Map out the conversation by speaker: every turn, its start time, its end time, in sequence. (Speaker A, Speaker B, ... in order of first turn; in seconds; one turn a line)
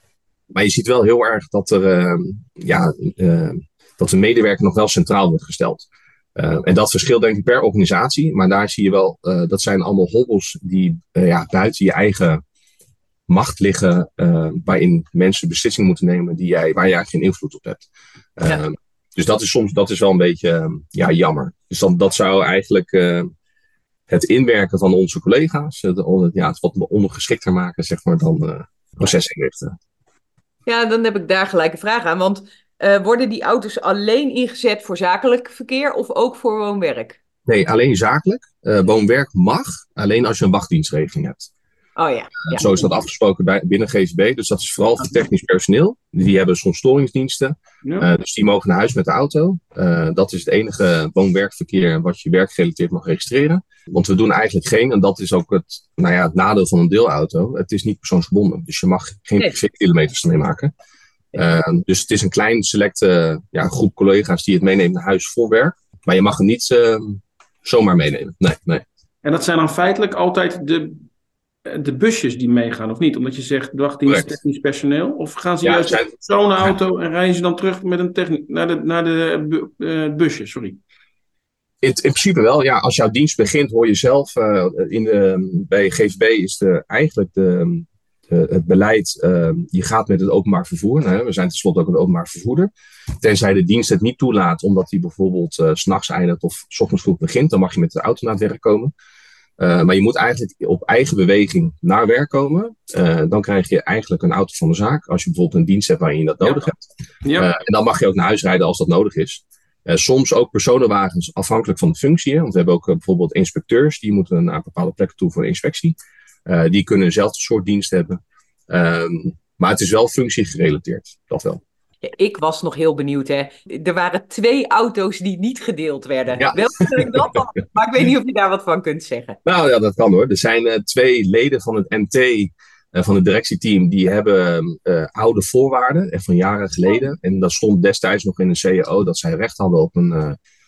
Speaker A: 0.5-12.4
Speaker A: 13.3-23.3
Speaker A: 24.1-29.8
Speaker B: 30.6-37.2
Speaker A: 37.5-41.5
Speaker B: 42.0-42.8
Speaker A: 42.5-60.7
Speaker C: 47.8-48.1
Speaker A: 61.3-68.8
Speaker C: 69.2-71.1
Speaker C: 71.7-80.8
Speaker A: 75.6-76.8
Speaker A: 81.8-92.7
Speaker A: 93.2-98.9
Speaker A: 99.6-106.8
Speaker C: 107.2-107.5
Speaker A: 107.3-121.6
Speaker B: 122.0-129.4
Speaker A: 126.4-127.2
Speaker A: 129.4-140.4